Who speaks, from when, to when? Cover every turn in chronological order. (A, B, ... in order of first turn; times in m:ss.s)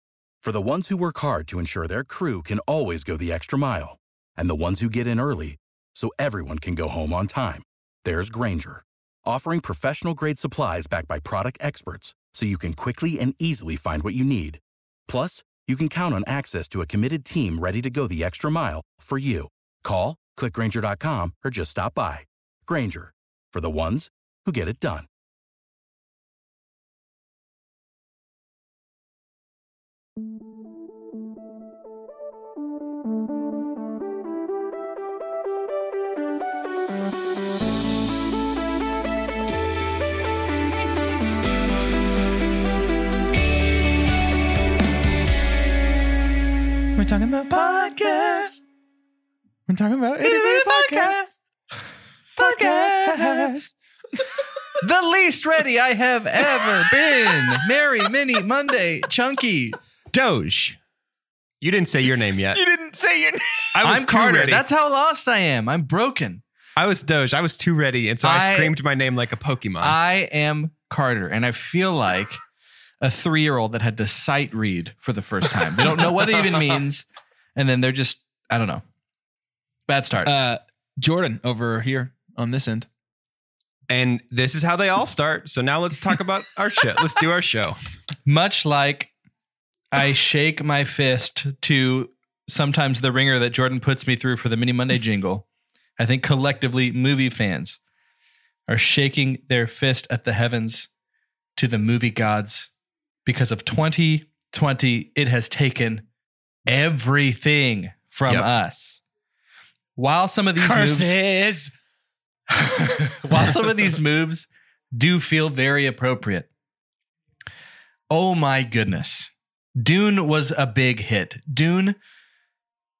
0:00.4-0:25.1 A
0:47.0-0:48.6 B
0:47.5-0:48.5 C
0:49.7-0:51.2 B
0:50.2-0:51.3 C
0:52.4-0:53.5 C
0:52.4-0:53.7 B
0:54.8-0:59.8 C
1:00.1-1:00.8 D
1:01.6-1:02.6 D
1:02.5-1:03.7 B
1:03.7-1:04.6 D
1:03.8-1:06.4 C
1:06.8-1:10.0 D
1:08.2-1:08.8 C
1:09.8-1:12.4 C
1:13.0-1:17.0 C
1:17.6-1:18.8 C
1:19.9-1:20.3 C
1:20.2-1:22.9 B
1:23.9-1:27.8 D
1:28.2-1:29.1 C
1:29.9-1:35.4 C
1:36.0-1:37.8 C
1:38.7-1:40.9 C
1:41.6-1:42.7 C
1:43.2-1:46.0 C
1:46.7-1:49.0 C
1:50.0-1:51.2 C
1:50.6-1:51.7 B
1:52.5-1:56.5 C
1:58.1-2:02.0 C